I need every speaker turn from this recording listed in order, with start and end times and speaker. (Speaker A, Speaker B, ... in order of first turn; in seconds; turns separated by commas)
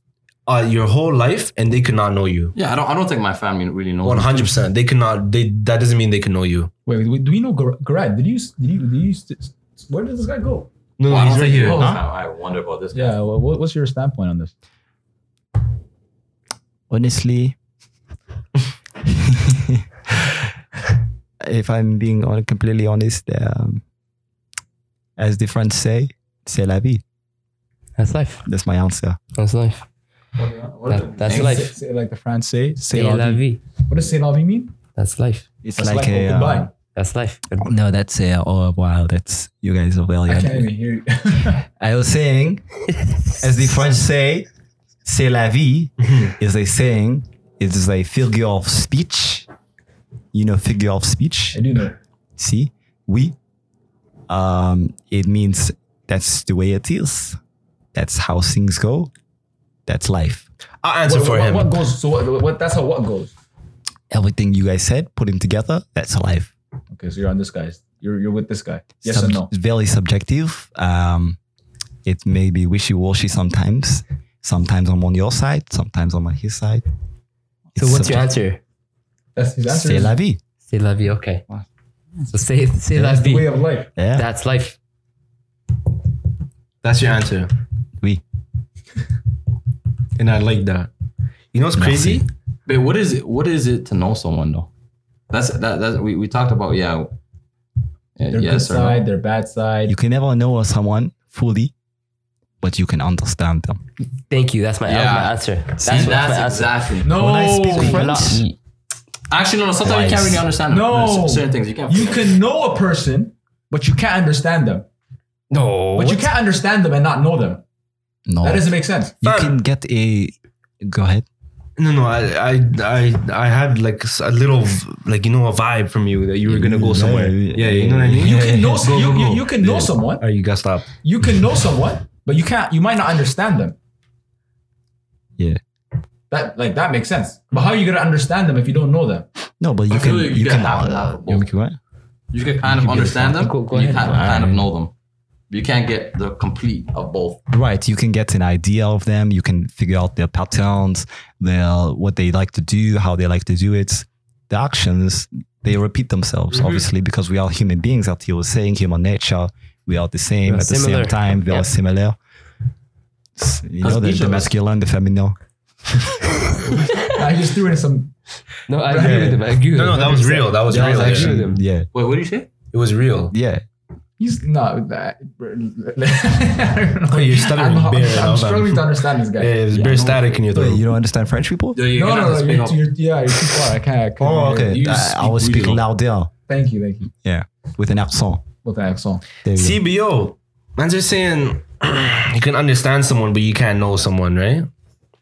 Speaker A: 0.5-2.5, Speaker B: 2.5-4.6, Speaker A: 4.0-6.7, Speaker C: 6.9-10.7, Speaker A: 11.0-11.8, Speaker B: 11.1-13.1, Speaker C: 11.5-12.0, Speaker C: 12.9-14.5, Speaker D: 16.9-17.6, Speaker D: 19.1-19.8, Speaker D: 21.4-23.8, Speaker D: 25.2-27.0, Speaker E: 28.0-28.4, Speaker D: 28.4-29.2, Speaker E: 29.4-29.9, Speaker B: 30.4-31.7, Speaker E: 30.9-31.7, Speaker C: 31.2-34.7, Speaker E: 32.9-33.6, Speaker E: 34.9-35.5, Speaker D: 35.6-36.7, Speaker C: 35.8-36.7, Speaker E: 36.9-37.7, Speaker D: 37.6-40.7, Speaker C: 40.3-41.6, Speaker D: 41.8-42.8, Speaker E: 43.0-43.4, Speaker D: 43.4-44.5, Speaker D: 45.0-49.5, Speaker A: 46.0-46.3, Speaker D: 50.3-51.6, Speaker C: 51.5-52.0, Speaker D: 52.4-53.4, Speaker D: 54.3-57.4, Speaker D: 57.9-59.1, Speaker D: 59.9-60.5, Speaker A: 60.8-61.8, Speaker C: 61.0-63.3, Speaker D: 64.1-66.5, Speaker C: 66.9-69.5, Speaker D: 69.0-71.4, Speaker D: 72.0-76.8, Speaker D: 77.7-78.3, Speaker E: 77.8-78.6, Speaker C: 79.4-80.2, Speaker D: 79.7-80.4, Speaker E: 80.7-81.4, Speaker E: 82.3-83.5, Speaker C: 83.0-83.9, Speaker D: 84.0-84.3, Speaker E: 84.2-84.8, Speaker A: 86.8-87.5, Speaker A: 90.2-90.9, Speaker A: 91.5-92.3, Speaker D: 91.7-92.2, Speaker B: 92.7-94.7, Speaker B: 95.3-97.1, Speaker B: 98.2-99.0, Speaker C: 98.3-99.9, Speaker D: 99.9-101.7, Speaker D: 102.6-103.8, Speaker E: 104.3-106.7, Speaker B: 104.9-107.2, Speaker D: 105.8-106.4, Speaker C: 107.0-108.1, Speaker D: 107.0-108.4, Speaker E: 107.7-108.5, Speaker B: 109.3-112.4, Speaker D: 109.8-110.5, Speaker C: 110.7-114.9, Speaker E: 115.5-116.3, Speaker C: 115.9-117.6, Speaker D: 118.3-121.3, Speaker C: 118.4-119.1, Speaker A: 119.2-119.6, Speaker A: 121.8-130.9, Speaker D: 126.4-128.9, Speaker C: 128.1-130.2, Speaker C: 131.0-133.8, Speaker C: 136.3-139.3, Speaker D: 139.6-141.8, Speaker B: 139.9-141.4, Speaker B: 142.3-144.9, Speaker D: 142.6-144.7, Speaker E: 143.3-144.2, Speaker B: 145.5-147.4, Speaker D: 147.5-162.2, Speaker B: 156.5-156.8, Speaker E: 160.4-161.7, Speaker D: 163.4-165.4, Speaker B: 163.8-164.5, Speaker D: 165.9-166.2, Speaker C: 167.1-168.1, Speaker E: 168.7-171.6, Speaker C: 168.9-169.4, Speaker D: 168.9-169.4, Speaker A: 169.7-171.4, Speaker D: 170.7-171.9, Speaker B: 171.9-172.5, Speaker A: 172.7-173.3, Speaker D: 173.3-173.6, Speaker C: 174.2-180.1, Speaker A: 177.1-180.8, Speaker B: 179.7-180.2, Speaker D: 180.5-181.8, Speaker B: 181.7-182.8, Speaker C: 181.9-184.9, Speaker D: 184.2-186.3, Speaker B: 184.7-185.8, Speaker C: 186.5-187.1, Speaker D: 187.2-188.4, Speaker C: 188.6-189.2, Speaker D: 189.4-189.8, Speaker A: 189.5-194.7